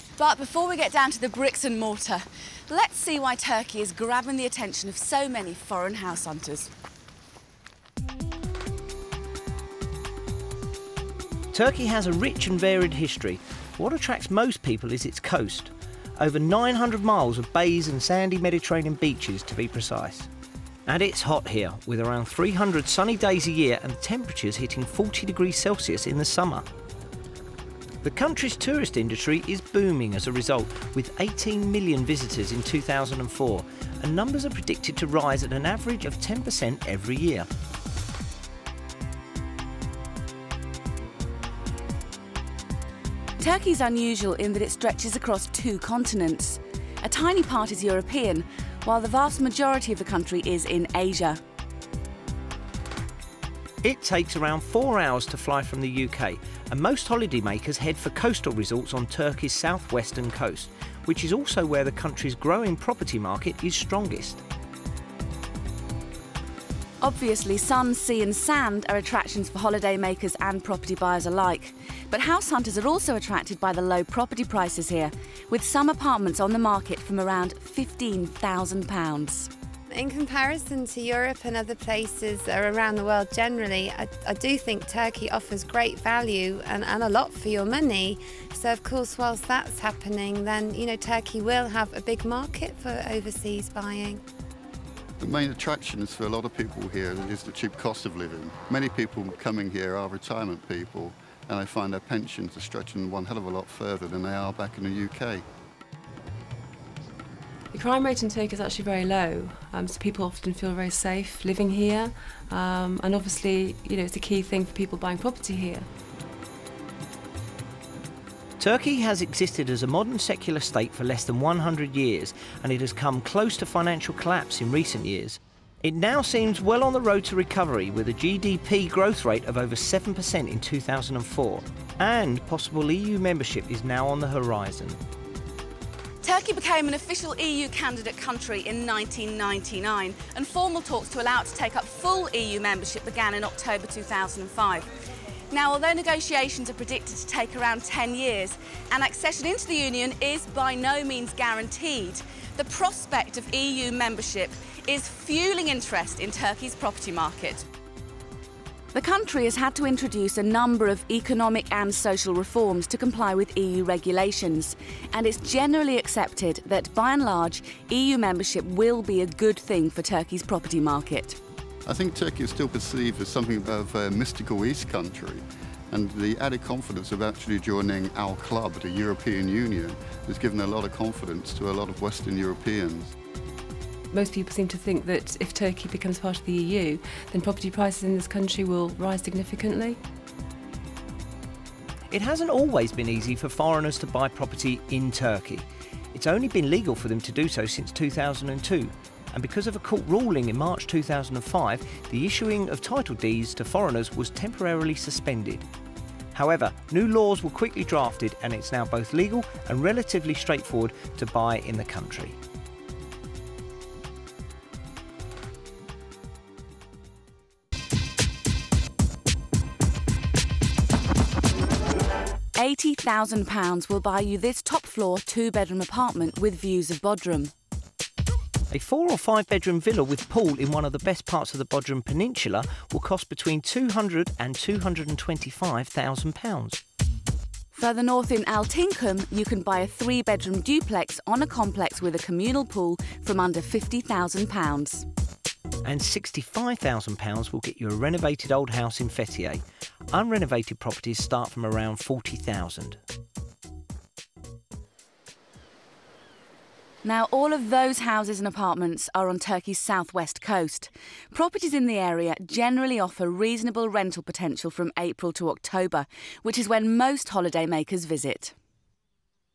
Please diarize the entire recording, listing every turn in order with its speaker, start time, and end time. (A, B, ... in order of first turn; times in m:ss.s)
0:00.2-0:06.7 A
0:11.5-0:20.3 B
0:20.9-0:26.7 B
0:28.0-0:37.5 B
0:43.4-0:51.4 A
0:53.8-1:04.4 B
1:07.0-1:19.5 A
1:19.9-1:34.2 C
1:35.2-1:45.4 D
1:47.7-1:55.9 E
1:58.6-2:15.0 B
2:16.2-2:24.9 A
2:25.5-2:37.7 A
2:38.9-2:51.4 A
2:51.9-3:03.1 D
3:04.1-3:10.0 E
3:12.1-3:25.7 B
3:26.4-3:32.4 B
3:42.6-3:47.5 A
3:48.7-3:56.8 B
3:57.7-4:05.1 A
4:05.8-4:13.0 B
4:17.0-4:28.5 A